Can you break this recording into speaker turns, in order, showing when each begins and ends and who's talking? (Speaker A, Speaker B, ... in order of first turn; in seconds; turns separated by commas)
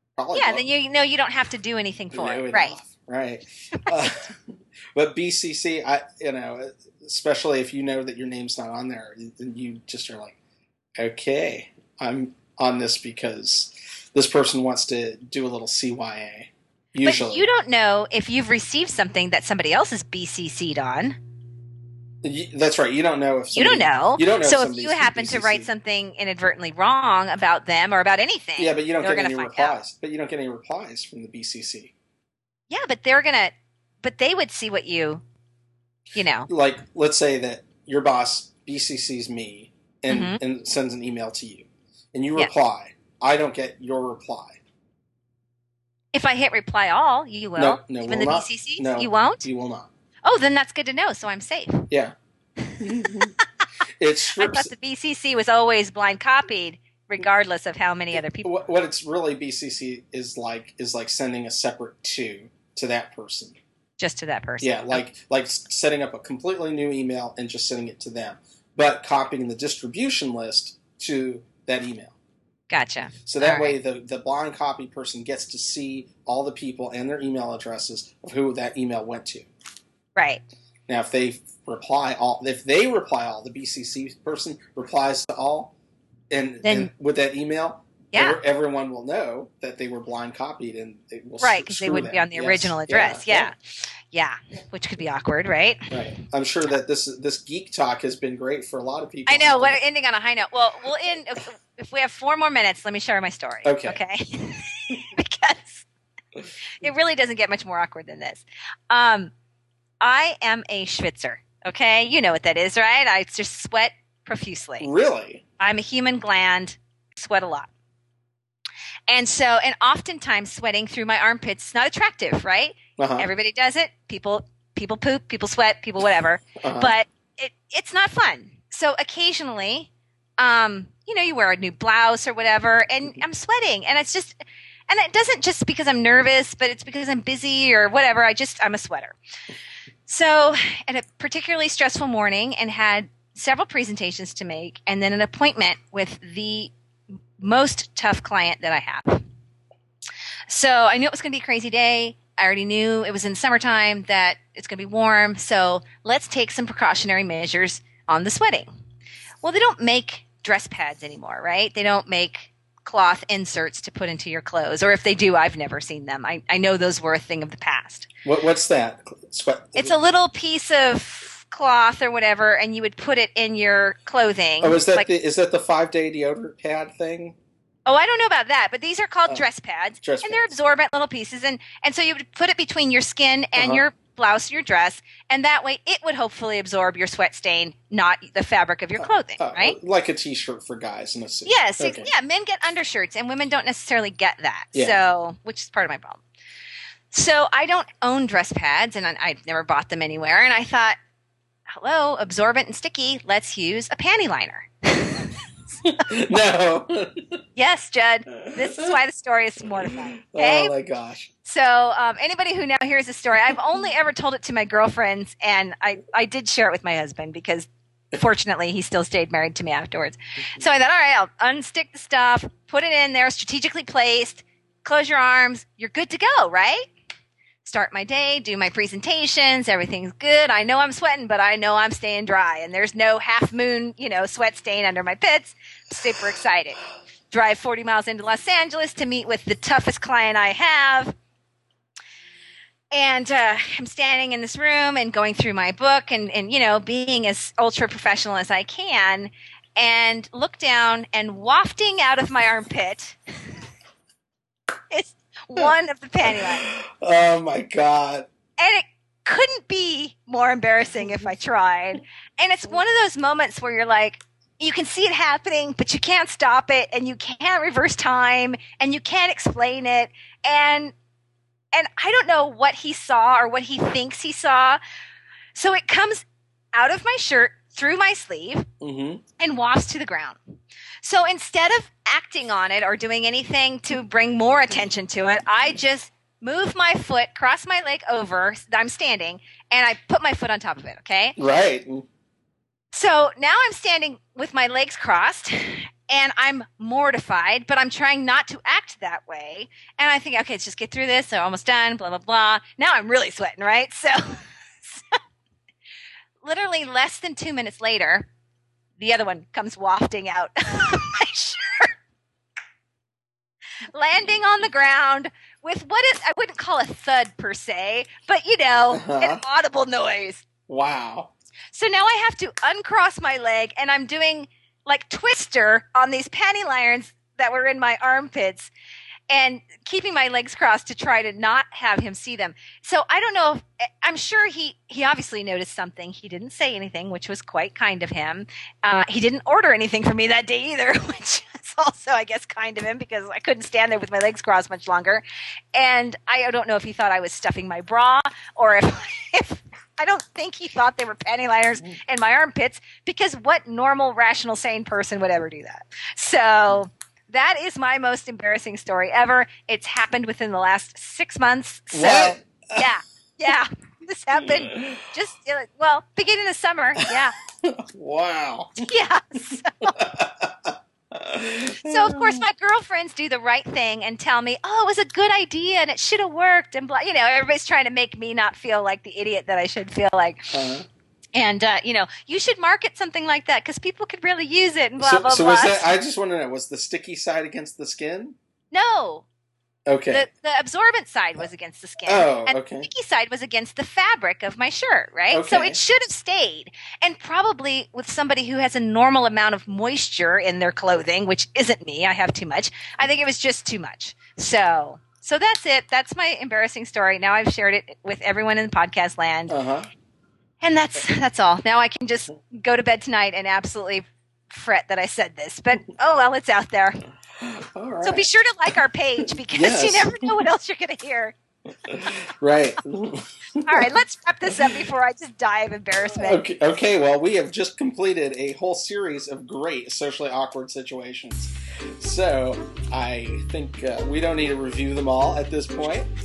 Speaker A: 0.1-0.7, Speaker B: 0.3-2.8, Speaker A: 2.1-10.4, Speaker A: 11.0-17.5, Speaker B: 17.0-21.2, Speaker A: 22.2-25.7, Speaker B: 23.5-29.8, Speaker A: 28.6-31.9, Speaker B: 32.7-35.2, Speaker B: 36.1-36.5, Speaker A: 36.5-44.6, Speaker B: 40.1-40.4, Speaker B: 46.1-49.5, Speaker A: 47.5-49.9, Speaker B: 50.2-51.9, Speaker A: 51.9-52.1, Speaker B: 52.6-53.4, Speaker A: 52.8-53.3, Speaker A: 54.0-54.7, Speaker B: 54.4-58.7, Speaker A: 58.2-63.6, Speaker B: 64.0-65.0, Speaker A: 64.6-72.1, Speaker B: 72.7-73.8, Speaker A: 73.2-79.5, Speaker B: 80.2-80.4, Speaker A: 80.9-85.7, Speaker A: 86.3-93.5, Speaker B: 86.6-86.9, Speaker B: 88.1-88.4, Speaker B: 91.4-96.0, Speaker A: 95.9-99.8, Speaker B: 99.3-105.8, Speaker A: 103.6-104.0, Speaker B: 106.8-109.3, Speaker B: 110.0-114.9, Speaker A: 114.8-115.4, Speaker B: 115.6-117.7, Speaker B: 119.1-134.3, Speaker A: 123.0-123.3, Speaker A: 126.6-126.9, Speaker B: 134.9-139.2, Speaker B: 140.1-146.7, Speaker B: 147.4-149.2, Speaker B: 150.5-158.7, Speaker B: 159.4-168.1, Speaker A: 168.2-169.9, Speaker B: 169.8-175.1, Speaker A: 174.6-177.3, Speaker B: 177.8-189.8, Speaker A: 180.0-180.5, Speaker A: 183.6-183.8, Speaker A: 189.0-192.1, Speaker B: 191.4-196.2, Speaker A: 194.7-195.0, Speaker B: 197.1-200.9, Speaker B: 201.7-205.4, Speaker A: 205.8-207.4, Speaker B: 207.6-210.7, Speaker A: 208.3-209.0, Speaker A: 209.8-211.3, Speaker B: 211.4-226.8, Speaker B: 227.6-241.1, Speaker B: 242.9-253.5, Speaker B: 254.9-256.6, Speaker A: 256.2-258.3, Speaker B: 258.6-270.9, Speaker B: 271.7-274.8, Speaker B: 275.6-276.2, Speaker B: 276.8-278.6, Speaker A: 278.8-279.2, Speaker B: 279.4-280.4, Speaker B: 281.0-291.4, Speaker A: 291.4-292.1, Speaker B: 292.9-305.2, Speaker B: 306.4-308.3, Speaker B: 309.0-311.9, Speaker B: 313.9-320.4, Speaker A: 318.9-319.4, Speaker A: 320.7-321.3, Speaker B: 321.7-328.7, Speaker B: 329.3-345.2, Speaker B: 345.7-367.4, Speaker A: 361.9-362.9, Speaker A: 364.4-365.0, Speaker A: 367.1-368.9, Speaker B: 368.9-369.9, Speaker A: 369.5-372.4, Speaker B: 371.8-380.6, Speaker A: 380.5-380.9, Speaker B: 381.3-385.9, Speaker A: 385.0-388.4, Speaker B: 388.7-389.2, Speaker A: 389.9-390.3, Speaker B: 390.1-409.5, Speaker A: 392.1-392.9, Speaker A: 395.3-395.8, Speaker A: 409.5-409.9, Speaker B: 410.6-417.0, Speaker A: 417.4-418.3, Speaker B: 418.0-421.3, Speaker A: 419.4-420.3, Speaker A: 421.8-423.9, Speaker B: 423.6-426.4, Speaker A: 424.5-424.8, Speaker A: 426.1-436.1